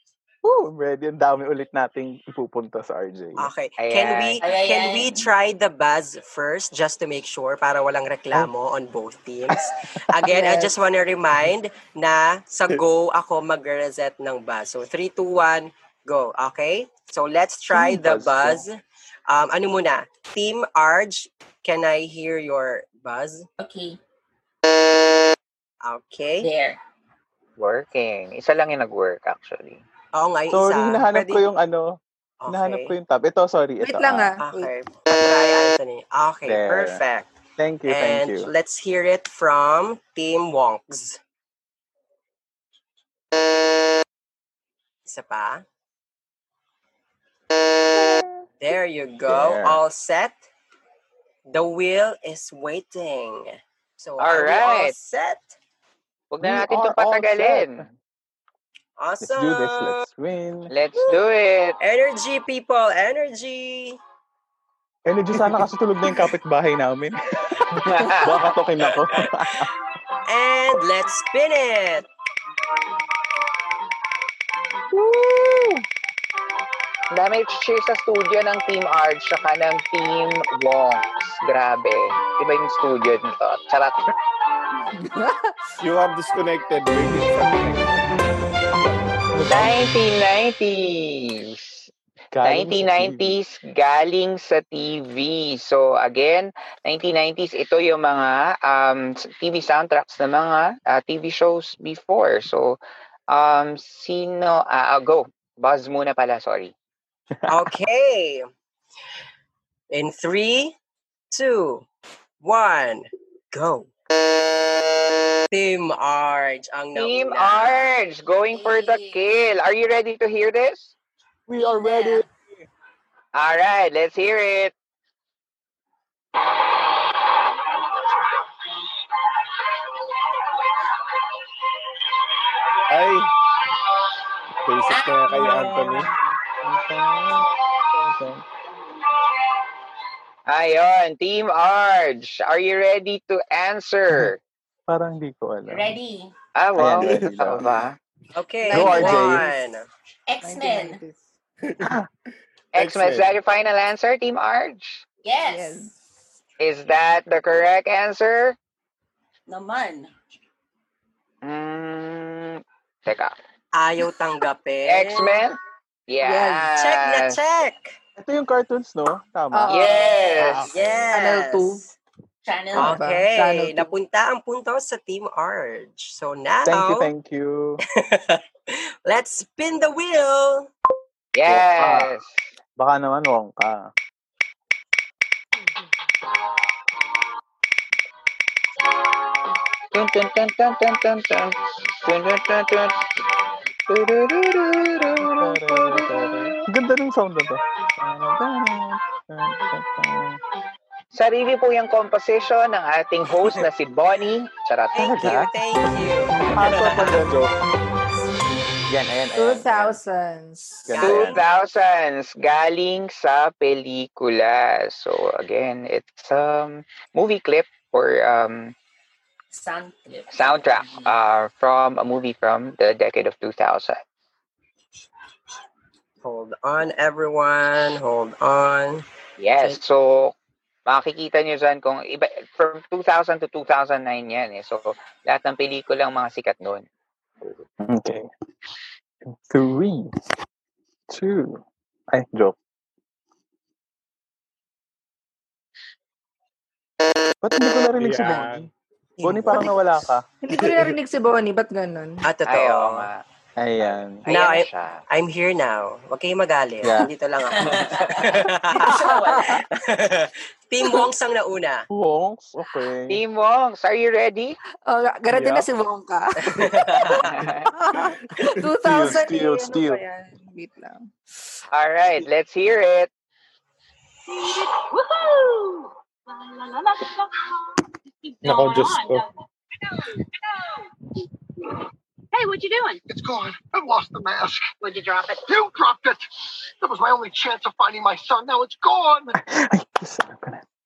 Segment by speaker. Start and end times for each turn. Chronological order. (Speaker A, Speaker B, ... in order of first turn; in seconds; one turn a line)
Speaker A: 0.4-3.5
Speaker B: 3.4-18.8
Speaker C: 3.8-4.4
Speaker D: 4.4-5.2
Speaker E: 10.3-10.7
Speaker A: 17.7-18.6
Speaker B: 19.3-23.5
Speaker D: 23.6-24.0
Speaker B: 25.8-26.5
Speaker D: 26.4-26.8
Speaker C: 27.6-29.8
Speaker B: 30.1-31.4
Speaker A: 30.5-34.3
Speaker B: 32.4-32.9
Speaker E: 33.8-34.7
Speaker B: 34.4-41.2
Speaker A: 36.5-37.0
Speaker A: 37.6-38.5
Speaker B: 45.0-45.6
Speaker B: 48.6-50.4
Speaker A: 49.3-49.8
Speaker B: 51.5-55.5
Speaker C: 54.2-54.9
Speaker C: 56.3-57.9
Speaker A: 56.4-57.9
Speaker B: 59.0-60.0
Speaker A: 59.2-60.7
Speaker C: 60.7-61.8
Speaker B: 61.8-64.0
Speaker A: 65.0-69.7
Speaker C: 67.8-68.3
Speaker B: 68.8-69.5
Speaker B: 70.2-72.1
Speaker C: 74.9-75.8
Speaker C: 77.1-84.1
Speaker E: 84.9-85.6
Speaker F: 85.8-89.2
Speaker A: 89.3-89.7
Speaker C: 89.5-91.9
Speaker A: 92.3-93.4
Speaker C: 92.4-102.8
Speaker C: 103.3-106.7
Speaker B: 107.5-108.5
Speaker B: 109.9-110.7
Speaker B: 111.3-111.8
Speaker B: 112.4-113.9
Speaker B: 115.5-117.9
Speaker C: 116.9-120.9
Speaker D: 118.5-119.2
Speaker A: 121.5-122.2
Speaker D: 121.5-122.2
Speaker C: 123.3-124.7
Speaker F: 132.9-133.3
Speaker F: 134.6-136.1
Speaker D: 134.8-136.1
Speaker A: 136.4-138.4
Speaker C: 140.5-144.4
Speaker A: 144.9-146.0
Speaker D: 145.7-146.3
Speaker C: 146.6-147.9
Speaker A: 146.8-147.8
Speaker B: 148.3-149.9
Speaker E: 148.7-149.4
Speaker A: 148.7-149.5
Speaker D: 150.3-151.0
Speaker E: 150.4-151.2
Speaker F: 151.7-152.0
Speaker C: 152.7-155.0
Speaker F: 152.8-153.4
Speaker D: 155.2-155.9
Speaker E: 155.4-155.9
Speaker C: 156.6-158.6
Speaker D: 159.5-160.1
Speaker C: 161.4-163.3
Speaker B: 163.7-165.4
Speaker C: 164.8-165.6
Speaker C: 166.1-167.4
Speaker E: 166.2-166.7
Speaker B: 166.8-168.0
Speaker A: 168.2-171.1
Speaker E: 169.5-171.9
Speaker C: 169.7-170.7
Speaker B: 170.7-171.8
Speaker D: 172.4-173.0
Speaker E: 172.7-173.9
Speaker B: 172.7-177.1
Speaker A: 176.6-177.8
Speaker B: 177.9-180.7
Speaker C: 181.3-182.4
Speaker A: 181.5-182.1
Speaker A: 182.8-183.9
Speaker C: 189.9-192.9
Speaker C: 193.9-196.1
Speaker A: 195.2-200.4
Speaker C: 201.1-205.3
Speaker A: 204.9-205.5
Speaker B: 205.1-207.2
Speaker A: 206.4-207.5
Speaker F: 207.2-207.5
Speaker D: 208.1-208.9
Speaker A: 208.9-210.0
Speaker E: 209.3-210.9
Speaker A: 210.8-211.4
Speaker B: 210.9-211.4
Speaker C: 211.0-218.7
Speaker D: 219.5-221.1
Speaker C: 220.3-224.0
Speaker B: 226.2-229.0
Speaker C: 229.4-230.3
Speaker C: 230.9-236.8
Speaker A: 237.8-238.3
Speaker A: 239.3-240.1
Speaker A: 241.1-242.6
Speaker A: 247.4-248.7
Speaker F: 248.0-248.7
Speaker D: 249.2-249.8
Speaker A: 249.2-250.2
Speaker E: 250.4-252.2
Speaker F: 250.5-250.9
Speaker B: 252.2-253.1
Speaker C: 252.4-253.2
Speaker A: 253.6-254.2
Speaker C: 253.8-255.0
Speaker B: 254.3-258.9
Speaker A: 256.8-257.1
Speaker D: 257.5-259.6
Speaker E: 258.9-259.4
Speaker B: 259.5-261.9
Speaker A: 261.9-263.2
Speaker C: 263.1-264.6
Speaker E: 264.9-271.1
Speaker A: 265.3-265.7
Speaker B: 266.5-267.2
Speaker C: 267.2-267.7
Speaker A: 268.8-270.0
Speaker C: 271.7-273.1
Speaker G: 274.3-279.3
Speaker F: 278.4-279.2
Speaker G: 279.8-280.8
Speaker G: 282.3-283.0
Speaker H: 283.1-286.3
Speaker H: 286.8-289.3
Speaker A: 289.4-290.6